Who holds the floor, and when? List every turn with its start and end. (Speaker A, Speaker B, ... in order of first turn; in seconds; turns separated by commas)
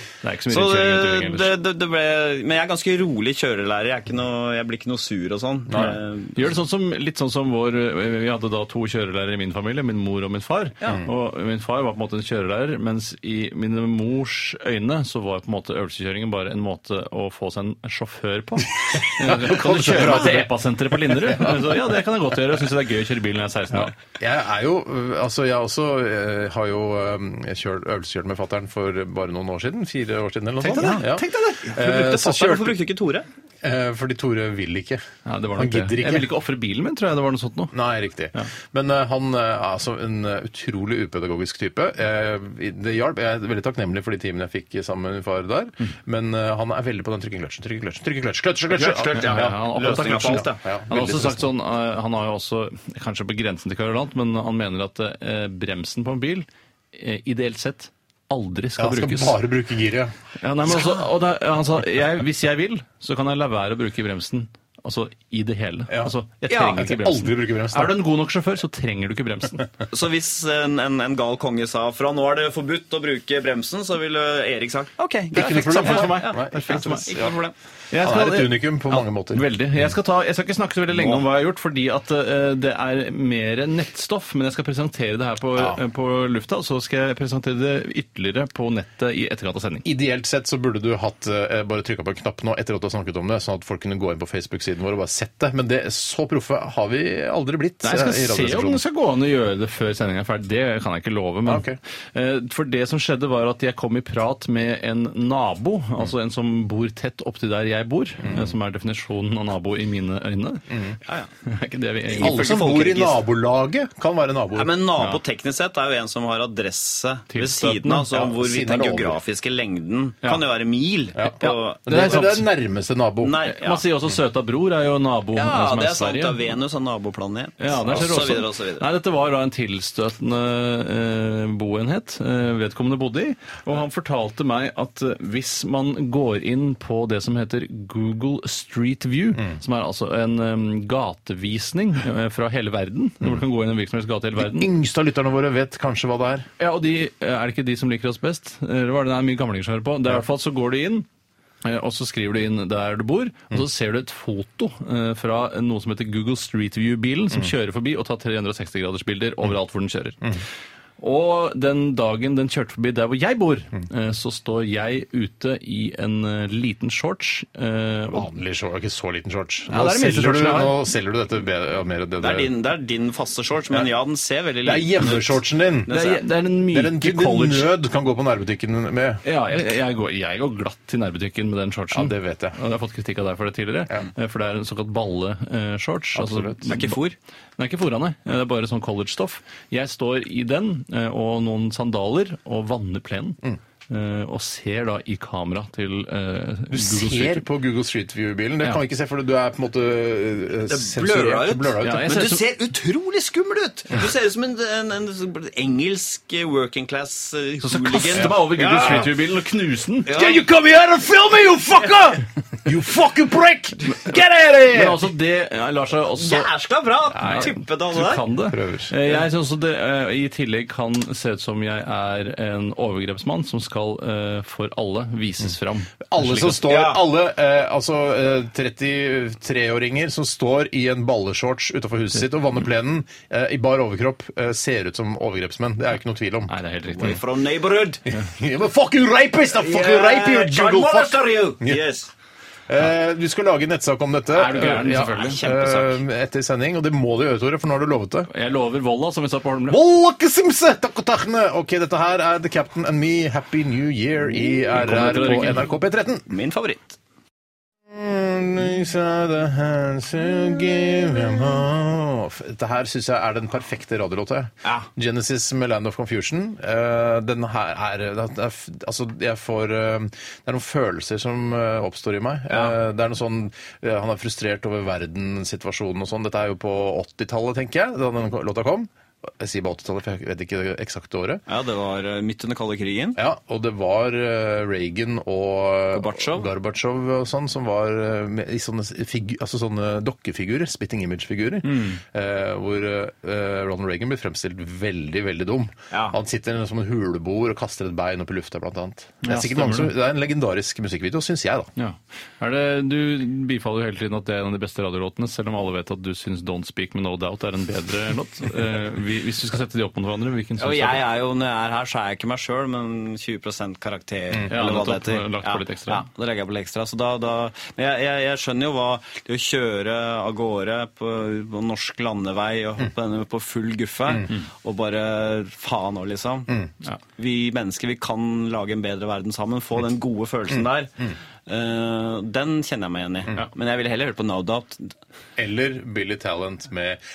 Speaker A: 0.2-1.5, Speaker B: 0.5-6.4, Speaker C: 5.7-6.0, Speaker A: 5.8-24.0, Speaker C: 19.2-21.8, Speaker C: 23.7-32.9, Speaker A: 30.6-31.6, Speaker B: 30.6-33.3, Speaker C: 33.6-35.0, Speaker A: 35.3-37.7, Speaker C: 35.6-36.3, Speaker C: 37.7-51.5, Speaker B: 48.7-50.6, Speaker A: 49.1-59.4, Speaker C: 58.8-60.1, Speaker A: 60.4-69.7, Speaker B: 66.5-66.8, Speaker C: 66.7-68.0, Speaker B: 69.9-77.5, Speaker C: 75.3-77.3, Speaker A: 75.4-77.3, Speaker A: 77.9-89.9, Speaker C: 78.0-79.5, Speaker C: 89.8-98.8, Speaker A: 97.8-110.8, Speaker C: 101.5-101.8, Speaker C: 108.2-108.5, Speaker C: 110.7-111.0, Speaker A: 111.4-112.8, Speaker B: 112.1-113.2, Speaker C: 112.2-114.7, Speaker B: 114.5-122.2, Speaker A: 117.3-118.1, Speaker C: 118.1-119.2, Speaker C: 121.2-123.4, Speaker A: 121.9-122.4, Speaker B: 123.2-123.8, Speaker A: 123.5-126.5, Speaker B: 125.3-128.9, Speaker A: 127.6-144.7, Speaker C: 144.4-146.5, Speaker A: 146.6-151.1, Speaker A: 151.6-160.4, Speaker A: 161.0-168.3, Speaker C: 168.1-172.5, Speaker A: 169.7-170.8, Speaker B: 172.2-175.3, Speaker C: 174.6-175.9, Speaker B: 175.9-176.2, Speaker A: 175.9-177.7, Speaker C: 176.7-179.2, Speaker A: 179.2-187.0, Speaker C: 181.9-182.6, Speaker C: 186.1-186.7, Speaker B: 186.7-187.2, Speaker A: 187.6-197.5, Speaker C: 196.7-202.1, Speaker B: 200.7-209.1, Speaker A: 201.8-202.4, Speaker A: 207.6-210.1, Speaker C: 208.1-209.1, Speaker B: 210.1-210.4, Speaker C: 210.1-215.0, Speaker A: 214.7-216.5, Speaker B: 216.2-218.2, Speaker C: 217.2-217.5, Speaker A: 217.2-226.7, Speaker C: 218.5-218.9, Speaker C: 226.1-236.5, Speaker B: 226.7-227.0, Speaker A: 236.5-237.2, Speaker B: 236.9-238.0, Speaker C: 238.1-241.8, Speaker B: 239.6-242.1, Speaker C: 242.7-248.3, Speaker A: 244.3-245.4, Speaker B: 245.0-246.0, Speaker A: 248.3-249.8, Speaker C: 249.7-256.3, Speaker A: 254.7-255.7, Speaker B: 256.3-257.0, Speaker C: 257.9-281.4, Speaker B: 281.5-283.2, Speaker C: 283.2-301.7, Speaker B: 285.9-286.5, Speaker A: 291.6-292.0, Speaker B: 295.9-296.2, Speaker A: 299.2-299.9, Speaker A: 301.8-311.1, Speaker B: 310.6-326.6, Speaker A: 314.5-316.1, Speaker B: 327.1-330.9, Speaker B: 331.5-334.9, Speaker C: 335.4-337.0